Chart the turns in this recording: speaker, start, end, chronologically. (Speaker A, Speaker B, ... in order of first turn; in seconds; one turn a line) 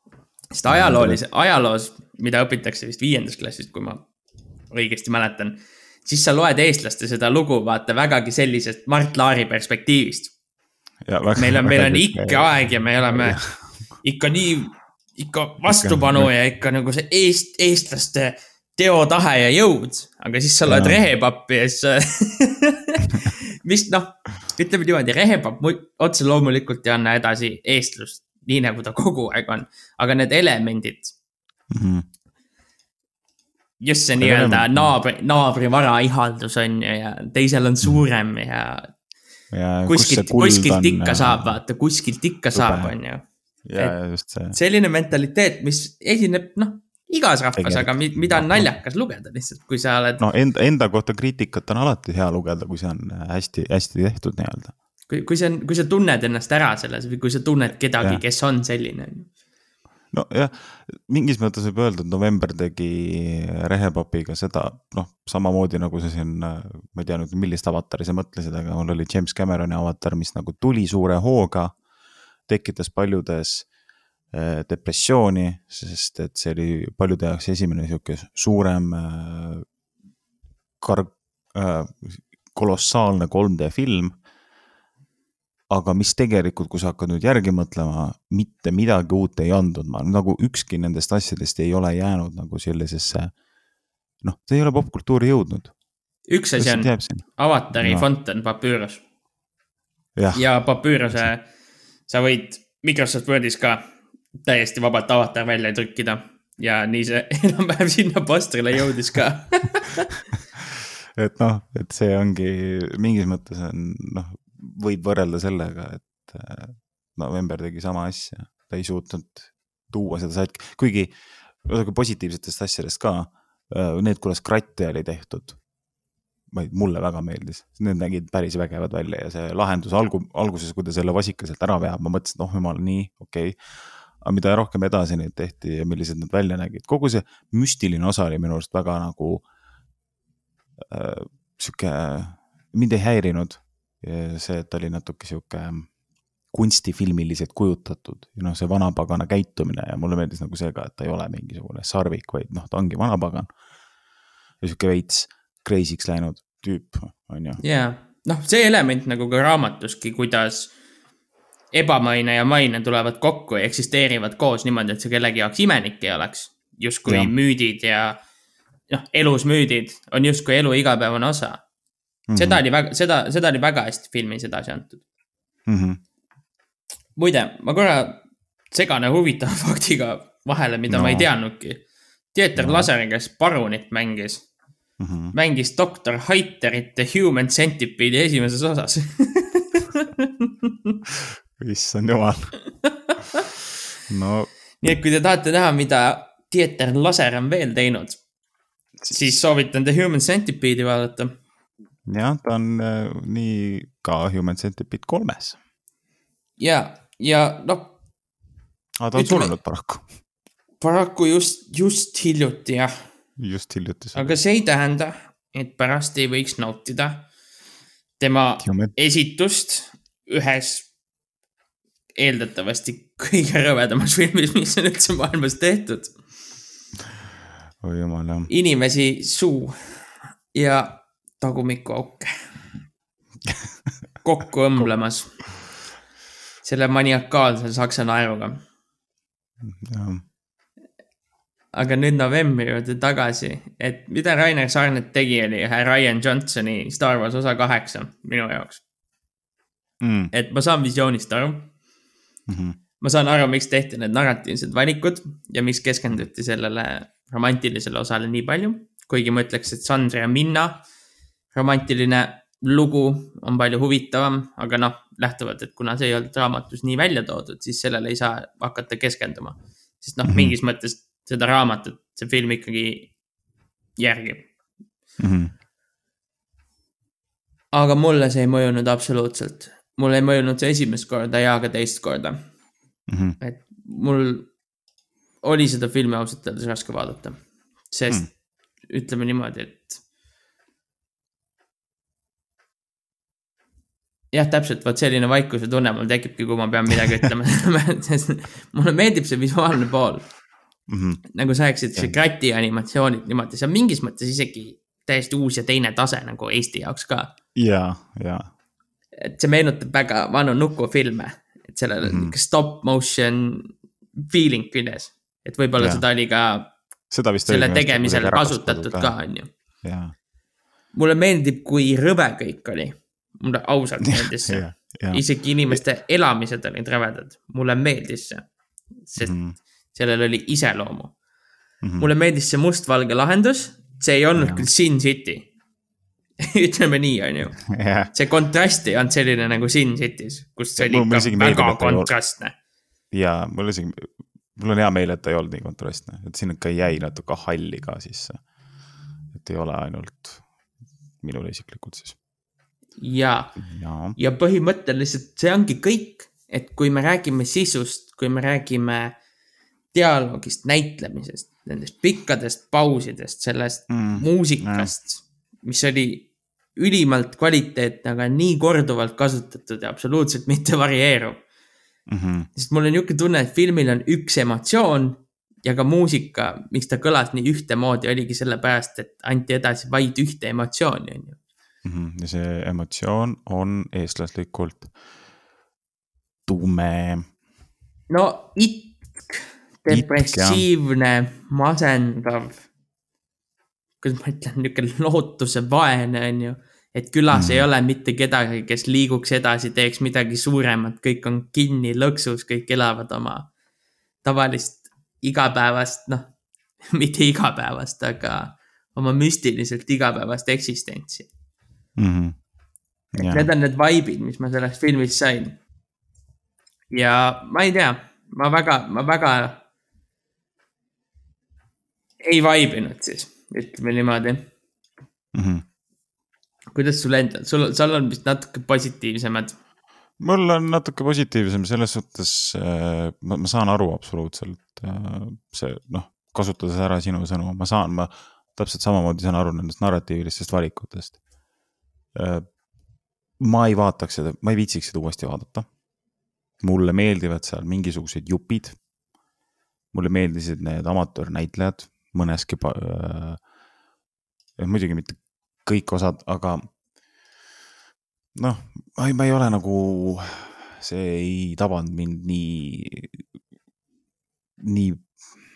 Speaker A: 0.6-4.0
Speaker B: 0.7-1.2
Speaker A: 4.7-10.3
Speaker B: 11.1-13.4
Speaker A: 11.4-13.4
Speaker A: 14.0-31.1
Speaker B: 15.7-16.3
Speaker B: 20.7-21.0
Speaker B: 31.7-32.0
Speaker A: 33.8-38.9
Speaker B: 34.2-34.9
Speaker B: 39.5-41.6
Speaker A: 39.9-43.2
Speaker B: 42.5-42.9
Speaker B: 43.6-44.6
Speaker A: 44.5-50.2
Speaker B: 47.6-48.7
Speaker B: 50.2-54.7
Speaker A: 55.1-59.3
Speaker B: 60.1-71.8
Speaker B: 72.5-73.7
Speaker B: 74.3-79.7
Speaker B: 80.8-84.1
Speaker B: 85.7-93.3
Speaker B: 94.2-95.7
Speaker A: 96.3-99.0
Speaker B: 96.6-97.2
Speaker B: 97.8-98.0
Speaker B: 100.2-100.4
Speaker A: 100.3-101.5
Speaker A: 102.1-103.8
Speaker A: 104.4-110.1
Speaker B: 110.6-121.1
Speaker B: 121.6-125.6
Speaker B: 126.5-133.6
Speaker B: 134.2-139.4
Speaker B: 140.8-145.9
Speaker B: 146.5-153.5
Speaker B: 154.6-157.6
Speaker A: 157.6-160.7
Speaker A: 161.7-168.2
Speaker B: 167.1-167.3
Speaker A: 168.9-171.6
Speaker B: 172.3-172.6
Speaker A: 172.3-175.0
Speaker B: 175.7-176.0
Speaker A: 177.2-178.2
Speaker A: 178.7-181.8
Speaker B: 180.9-181.3
Speaker A: 182.3-184.4
Speaker B: 182.6-182.9
Speaker B: 185.0-185.3
Speaker A: 185.3-190.9
Speaker B: 191.6-192.5
Speaker A: 192.8-193.4
Speaker B: 194.1-194.5
Speaker A: 194.8-198.2
Speaker B: 199.0-199.4
Speaker A: 199.1-201.3
Speaker B: 202.1-205.6
Speaker A: 206.6-207.9
Speaker B: 209.0-210.1
Speaker A: 209.2-209.5
Speaker A: 210.8-213.0
Speaker B: 213.4-214.4
Speaker A: 214.2-217.2
Speaker A: 218.2-220.9
Speaker B: 218.6-218.9
Speaker A: 222.2-226.1
Speaker B: 227.8-228.5
Speaker A: 228.5-230.0
Speaker A: 230.5-232.3
Speaker A: 234.2-235.4
Speaker A: 236.6-238.6
Speaker B: 239.6-240.2
Speaker A: 241.7-248.8
Speaker B: 250.0-250.3
Speaker A: 250.3-251.7
Speaker B: 252.5-252.8
Speaker A: 253.0-260.8
Speaker A: 261.5-273.1
Speaker B: 270.3-270.6
Speaker A: 274.0-274.5
Speaker B: 275.2-275.5
Speaker A: 277.7-282.4
Speaker B: 283.1-283.4
Speaker A: 283.4-284.5
Speaker A: 285.4-287.4
Speaker A: 287.9-288.3
Speaker A: 288.9-290.0
Speaker A: 294.3-300.2
Speaker B: 300.9-301.2
Speaker A: 301.3-307.3
Speaker B: 307.6-308.5
Speaker A: 309.2-313.7
Speaker B: 312.1-312.3
Speaker A: 314.2-316.7
Speaker B: 315.8-316.0
Speaker B: 317.1-319.1
Speaker A: 317.5-319.5
Speaker B: 319.8-320.1
Speaker A: 320.9-328.5
Speaker B: 324.1-325.8
Speaker A: 329.1-329.3
Speaker B: 329.2-329.6
Speaker A: 329.9-331.1
Speaker B: 331.8-332.1
Speaker A: 332.0-335.5
Speaker B: 334.4-334.7
Speaker A: 336.4-342.5
Speaker B: 337.6-338.1
Speaker B: 340.8-342.1
Speaker B: 343.1-348.4
Speaker B: 349.3-350.4
Speaker B: 351.2-352.2
Speaker A: 353.0-353.6
Speaker B: 353.6-354.2
Speaker A: 354.2-359.1
Speaker A: 359.9-371.4
Speaker B: 363.9-364.9
Speaker B: 372.1-372.5
Speaker A: 372.6-381.4
Speaker B: 381.9-384.9
Speaker B: 386.5-387.3
Speaker A: 388.1-392.6
Speaker B: 389.9-390.6
Speaker A: 394.0-403.5
Speaker B: 397.3-397.7
Speaker A: 404.2-406.3
Speaker A: 406.9-411.3
Speaker B: 412.0-412.4
Speaker B: 413.1-413.5
Speaker A: 413.2-415.6
Speaker A: 416.9-419.6
Speaker A: 422.2-424.4
Speaker B: 425.3-425.6
Speaker A: 426.8-429.5
Speaker B: 430.2-441.2
Speaker B: 442.1-442.5
Speaker B: 443.4-445.7
Speaker B: 446.6-448.8
Speaker B: 449.9-453.4
Speaker B: 454.6-456.7
Speaker B: 458.4-463.2
Speaker B: 464.6-465.1